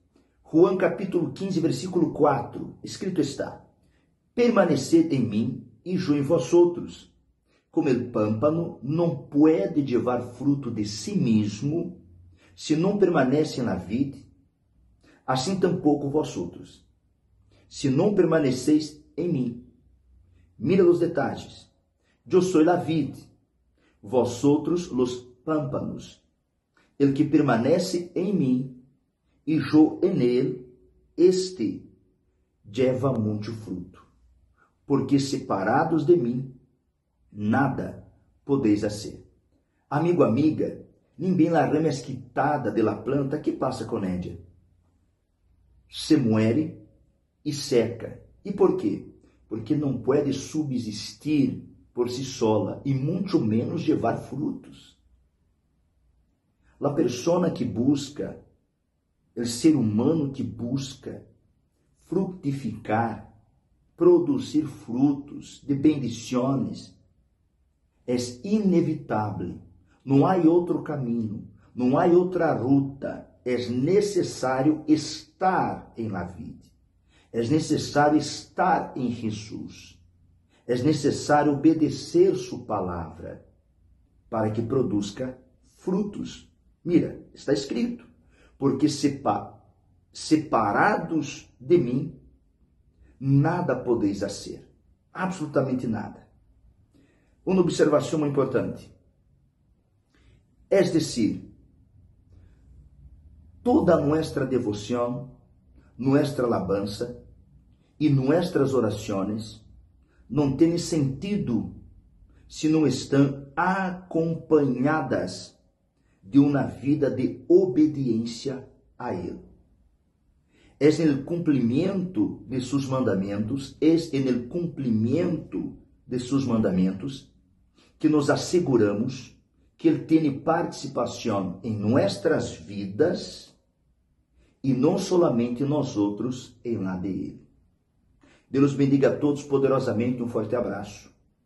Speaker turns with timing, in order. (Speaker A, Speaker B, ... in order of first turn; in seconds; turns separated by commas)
Speaker A: 0.4-3.6, Speaker A: 4.3-7.1, Speaker A: 7.7-12.0, Speaker A: 12.5-14.2, Speaker A: 15.2-16.8, Speaker A: 17.7-19.7, Speaker A: 20.6-21.7, Speaker A: 22.2-23.3, Speaker A: 24.0-26.2, Speaker A: 27.0-28.8, Speaker A: 29.4-31.9, Speaker A: 32.6-34.1, Speaker A: 34.9-36.5, Speaker A: 37.3-39.2, Speaker A: 39.9-44.4, Speaker A: 45.9-46.8, Speaker A: 47.4-55.0, Speaker A: 56.8-58.4, Speaker A: 59.3-61.2, Speaker A: 62.0-63.3, Speaker A: 64.0-66.9, Speaker A: 68.0-76.7, Speaker A: 77.3-80.0, Speaker A: 80.7-83.4, Speaker A: 84.3-92.2, Speaker A: 93.2-96.3, Speaker A: 97.4-98.9, Speaker A: 100.7-101.5, Speaker A: 103.6-105.3, Speaker A: 106.0-107.2, Speaker A: 108.0-109.6, Speaker A: 110.3-111.8, Speaker A: 112.5-115.5, Speaker A: 116.2-119.4, Speaker A: 120.8-127.3, Speaker A: 128.0-133.5, Speaker A: 134.6-137.4, Speaker A: 138.5-141.1